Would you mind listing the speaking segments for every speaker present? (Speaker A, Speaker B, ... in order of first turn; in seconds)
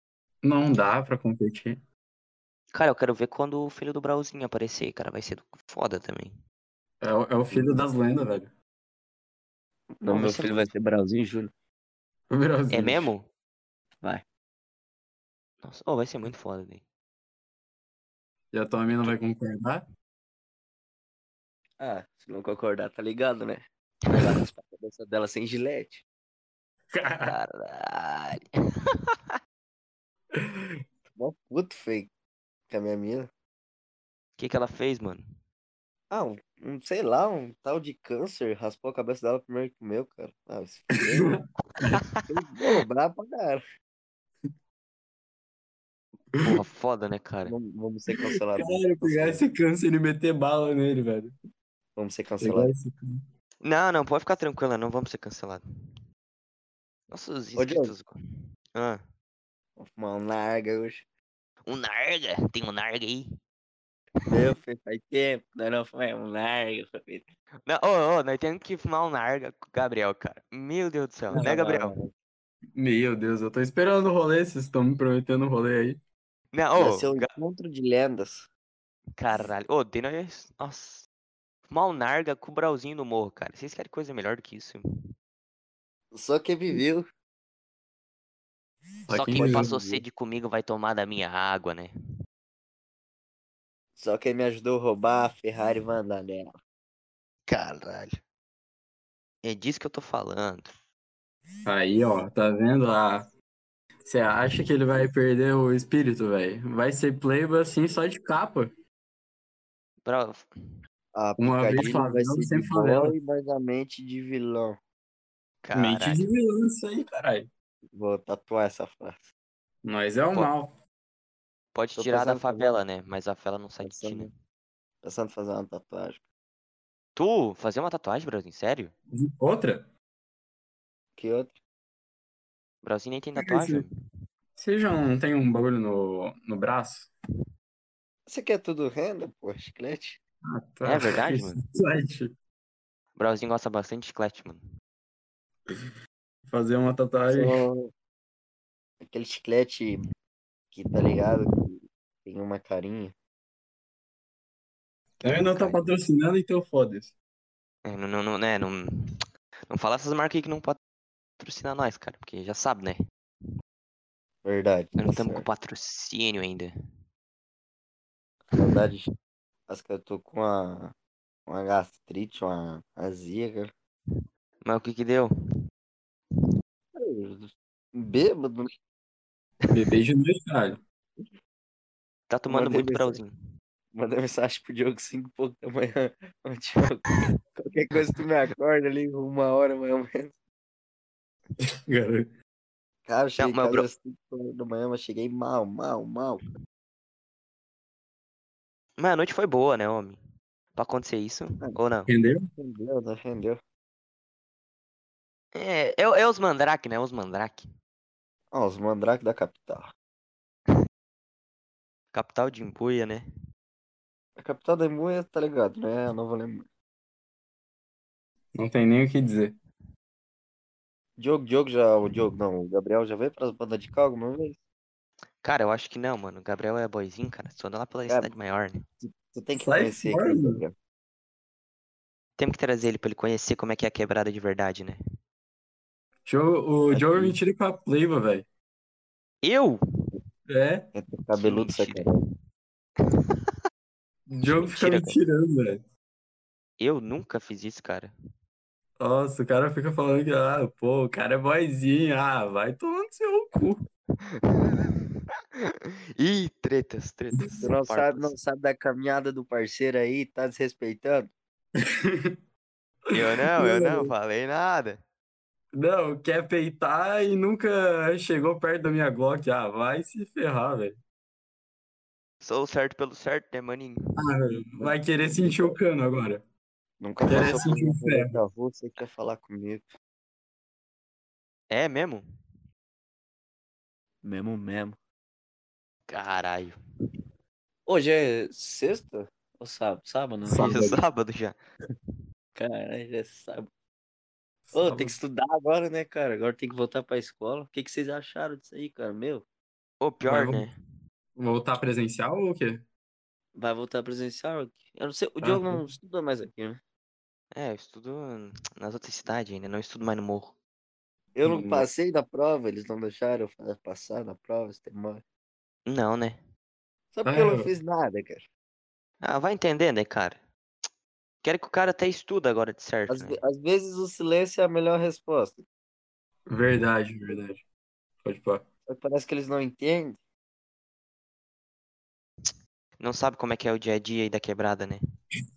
Speaker A: 0.4-1.8, 7.0-8.5, 12.3-13.1, 18.5-19.8, 26.9-27.4, 30.3-30.8, 41.0-42.0, 48.5-51.3, 52.4-53.2, 72.7-76.0, 89.1-89.8, 101.6-103.3, 104.0-108.7, 111.4-113.1, 115.7-117.5, 119.8-120.8, 129.1-129.9, 133.4-133.8, 134.6-137.1, 140.4-142.3, 146.5-147.6, 155.2-157.1, 179.7-180.8, 191.8-192.3, 202.1-202.5, 218.5-219.6, 229.6-230.6, 236.2-238.4, 240.5-240.9, 244.3-245.8, 249.0-253.8, 261.8-262.4, 263.6-264.1, 265.7-271.0, 274.2-276.4, 277.2-278.4, 290.5-291.0, 294.6-295.1, 300.2-300.7, 301.4-302.8, 305.4-305.8, 311.4-311.9, 317.2-317.7, 326.5-327.6, 328.2-328.6
Speaker B: 2.7-6.4, 10.1-10.7, 12.7-13.3, 15.6-16.8, 27.2-29.1, 34.4-35.2, 41.9-42.2, 46.4-47.5, 53.6-55.6, 57.1-58.1, 58.7-59.0, 61.6-63.3, 67.7-72.0, 76.5-77.3, 79.2-81.1, 81.7-84.8, 89.1-91.9, 97.5-98.1, 99.4-100.7, 110.0-110.5, 115.6-116.2, 121.7-124.3, 127.2-128.9, 132.8-133.9, 140.8-141.6, 143.2-144.6, 155.2-155.8, 157.8-160.8, 161.4-163.0, 165.0-166.7, 174.6-175.3, 182.3-183.3, 193.4-193.9, 199.0-200.2, 200.7-202.1, 205.5-207.7, 212.1-213.2, 225.4-228.8, 232.4-235.0, 239.4-239.8, 241.3-242.1, 243.1-243.5, 244.6-245.2, 246.8-248.1, 254.2-255.0, 255.6-258.3, 263.1-265.0, 272.4-274.0, 277.3-277.7, 281.7-282.2, 286.1-286.8, 290.5-291.6, 300.0-300.7, 307.5-310.5, 315.9-316.4, 319.2-320.4, 321.4-323.4, 333.0-335.0
Speaker C: 7.5-7.8, 10.0-11.5, 21.8-26.0, 31.1-32.1, 32.7-33.3, 36.1-41.4, 42.2-43.6, 47.5-49.4, 52.0-52.7, 57.6-57.9, 59.8-61.0, 64.2-67.2, 71.3-72.1, 76.7-78.5, 86.1-87.0, 89.3-90.0, 94.0-96.5, 111.1-114.8, 117.9-119.3, 122.0-122.8, 123.8-124.3, 125.0-126.2, 131.2-131.6, 138.3-140.2, 147.3-147.9, 149.0-150.1, 150.7-153.1, 164.4-165.4, 168.5-169.1, 169.7-170.9, 171.5-173.7, 176.9-178.7, 182.5-183.2, 183.9-190.3, 193.1-196.4, 202.6-203.6, 208.5-209.9, 214.4-216.7, 221.2-224.6, 229.0-230.7, 236.9-237.4, 240.9-242.2, 257.6-261.3, 274.8-275.8, 277.0-279.9, 284.2-285.0, 287.9-290.8, 292.6-293.7, 294.7-299.4, 303.5-306.8, 311.3-315.2, 317.1-318.5, 323.1-325.6, 328.9-330.2